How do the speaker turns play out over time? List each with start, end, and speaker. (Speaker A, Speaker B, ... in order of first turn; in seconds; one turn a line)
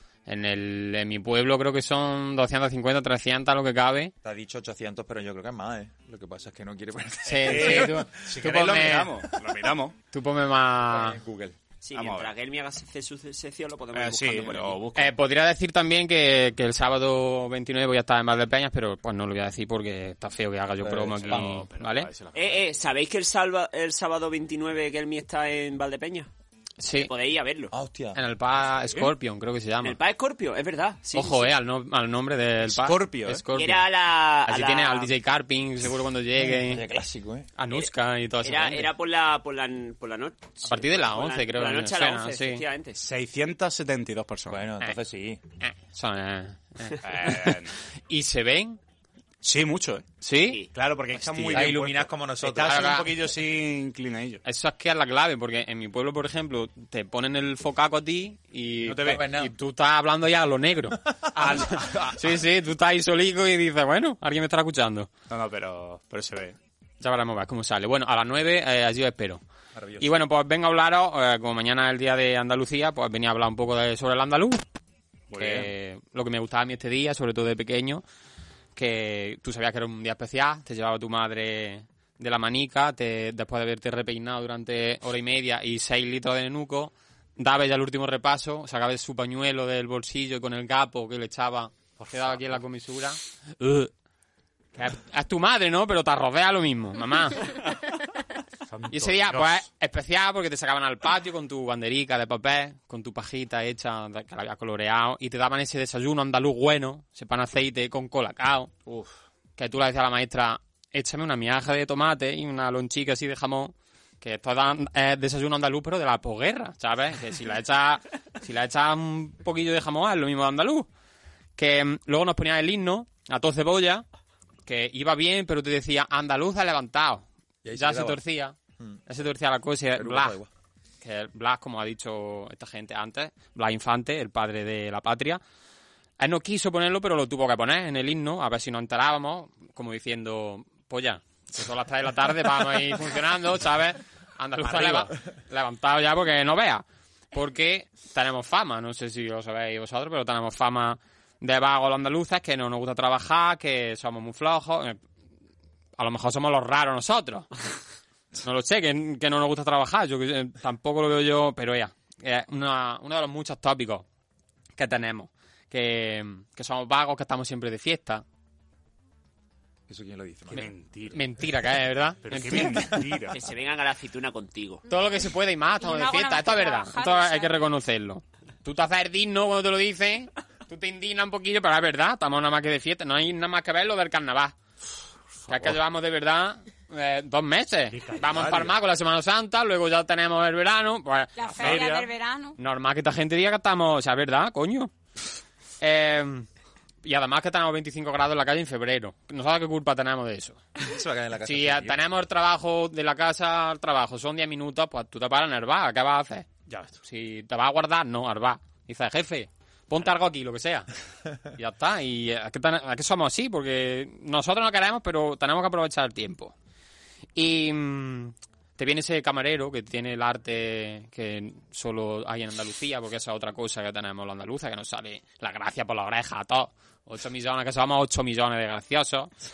Speaker A: 0.3-4.1
Speaker B: 4.2-8.2
Speaker A: 7.3-9.2
Speaker C: 7.3-10.0
Speaker A: 10.1-11.2
Speaker B: 10.9-11.6
Speaker D: 11.8-14.8
Speaker C: 11.9-12.3
Speaker C: 13.9-15.2
Speaker A: 14.9-22.1
Speaker B: 20.8-21.5
Speaker C: 21.1-22.6
Speaker D: 22.3-26.3
Speaker A: 26.8-27.1
Speaker D: 26.9-27.7
Speaker B: 27.7-28.2
Speaker A: 28.1-30.0
Speaker D: 29.8-31.5
Speaker A: 31.1-33.9
Speaker C: 32.6-33.4
Speaker D: 33.5-35.1
Speaker A: 34.5-36.9
Speaker B: 36.4-37.5
Speaker A: 37.6-38.9
Speaker D: 38.4-43.0
Speaker A: 40.6-42.6
Speaker C: 43.0-44.7
Speaker B: 44.5-45.4
Speaker A: 45.6-48.8
Speaker C: 47.0-47.8
Speaker C: 49.4-50.1
Speaker A: 50.2-50.6
Speaker C: 50.7-54.4
Speaker A: 51.2-51.8
Speaker B: 51.5-53.1
Speaker A: 52.6-53.2
Speaker A: 54.4-65.1
Speaker C: 58.9-59.3
Speaker B: 58.9-59.5
Speaker B: 61.4-61.9
Speaker C: 61.4-62.2
Speaker C: 65.3-66.6
Speaker A: 67.0-69.4
Speaker B: 69.8-70.1
Speaker A: 70.0-74.6
Speaker C: 75.3-75.7
Speaker A: 75.4-78.0
Speaker A: 78.8-93.9
Speaker C: 92.0-92.6
Speaker A: 94.8-97.7
Speaker C: 98.7-99.7
Speaker A: 98.9-108.7
Speaker C: 108.9-109.1
Speaker A: 109.6-120.9
Speaker A: 121.6-124.0
Speaker A: 124.7-128.6
Speaker B: 127.6-128.2
Speaker B: 128.8-129.1
Speaker A: 129.1-130.4
Speaker B: 129.9-130.5
Speaker A: 131.0-135.4
Speaker A: 136.2-155.0
Speaker C: 144.6-145.1
Speaker A: 156.0-157.5
Speaker A: 158.4-164.1
Speaker A: 164.8-168.2
Speaker B: 169.9-170.7
Speaker C: 170.5-171.3
Speaker A: 171.1-173.1
Speaker C: 172.2-173.4
Speaker D: 173.3-174.8
Speaker A: 174.9-184.6
Speaker E: 175.8-177.6
Speaker C: 185.5-185.8
Speaker A: 185.5-191.9
Speaker C: 187.9-188.8
Speaker E: 191.4-192.6
Speaker C: 191.6-192.1
Speaker A: 192.6-194.9
Speaker A: 195.8-196.5
Speaker A: 197.0-200.6
Speaker B: 200.8-202.0
Speaker A: 201.4-206.5
Speaker C: 206.7-207.0
Speaker A: 207.1-210.9
Speaker A: 211.6-216.5
Speaker A: 217.3-229.3